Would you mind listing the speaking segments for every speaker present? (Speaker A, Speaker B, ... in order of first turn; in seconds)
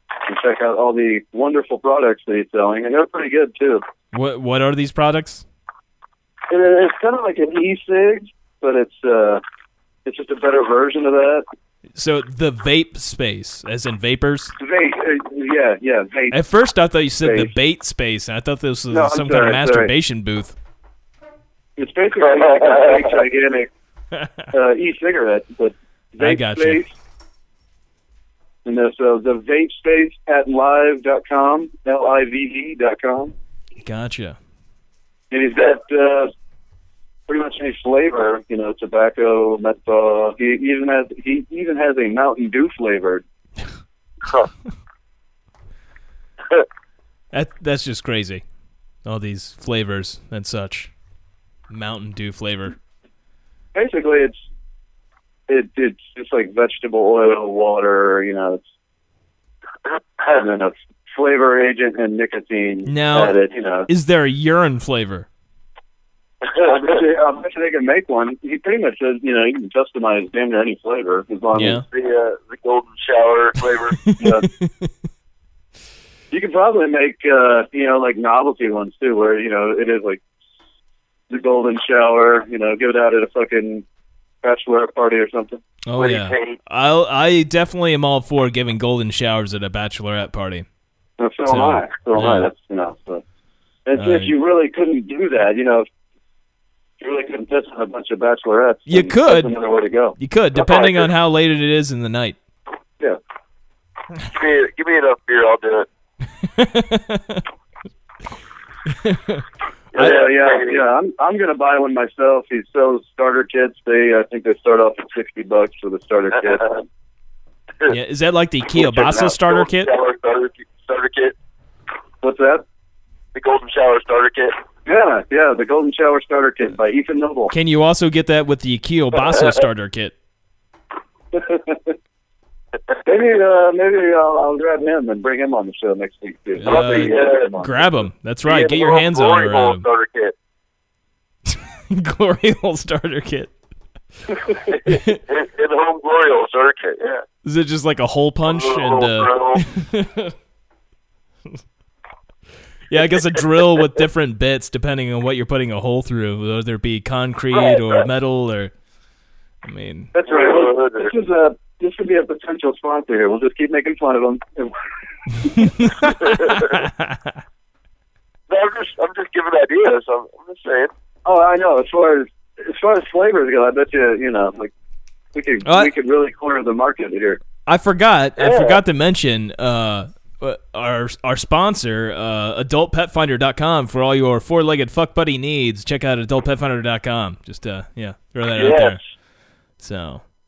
Speaker A: 0.2-3.8, 6.5-9.4, 10.0-11.4, 14.6-16.4, 17.2-17.5, 18.9-19.9, 21.8-23.7, 24.5-26.9, 28.6-33.3, 35.3-36.3, 37.3-43.2, 53.7-54.4, 55.5-58.6, 60.3-63.9, 66.6-71.8, 74.2-74.5, 76.3-80.2, 81.3-83.8, 84.4-85.6, 91.2-93.2, 93.8-95.8, 97.0-100.2, 109.9-116.8, 122.2-122.6, 124.8-127.5, 131.3-131.9, 133.0-138.1, 160.1-164.7, 165.4-166.5, 171.2-174.7, 175.3-177.4
Speaker B: 4.1-5.4, 11.9-14.5, 16.3-20.5, 26.2-26.8, 33.8-34.4, 47.3-48.4, 49.0-50.9, 51.7-52.8, 62.9-63.4, 63.9-65.3, 71.5-71.8, 74.0-74.9, 85.8-90.7, 91.5-92.5, 93.9-94.3, 98.9-99.5, 100.2-102.4, 106.4-107.4, 108.9-109.4, 117.9-119.9, 127.5-130.1, 136.6-139.8, 141.5-143.5, 144.8-145.2, 147.4-150.3, 152.9-158.7, 159.6-160.1, 165.6-167.3, 175.6-175.9, 177.7-189.0, 189.8-190.2
Speaker C: 22.6-23.0, 71.8-74.0, 86.0-86.6, 100.5-101.0, 104.3-105.9, 109.9-110.8, 118.8-121.3, 123.3-124.5, 136.6-137.5, 138.4-140.3, 144.7-147.2, 148.5-149.6, 157.5-158.0, 160.3-161.1, 168.5-170.9, 178.4-178.8, 188.6-189.0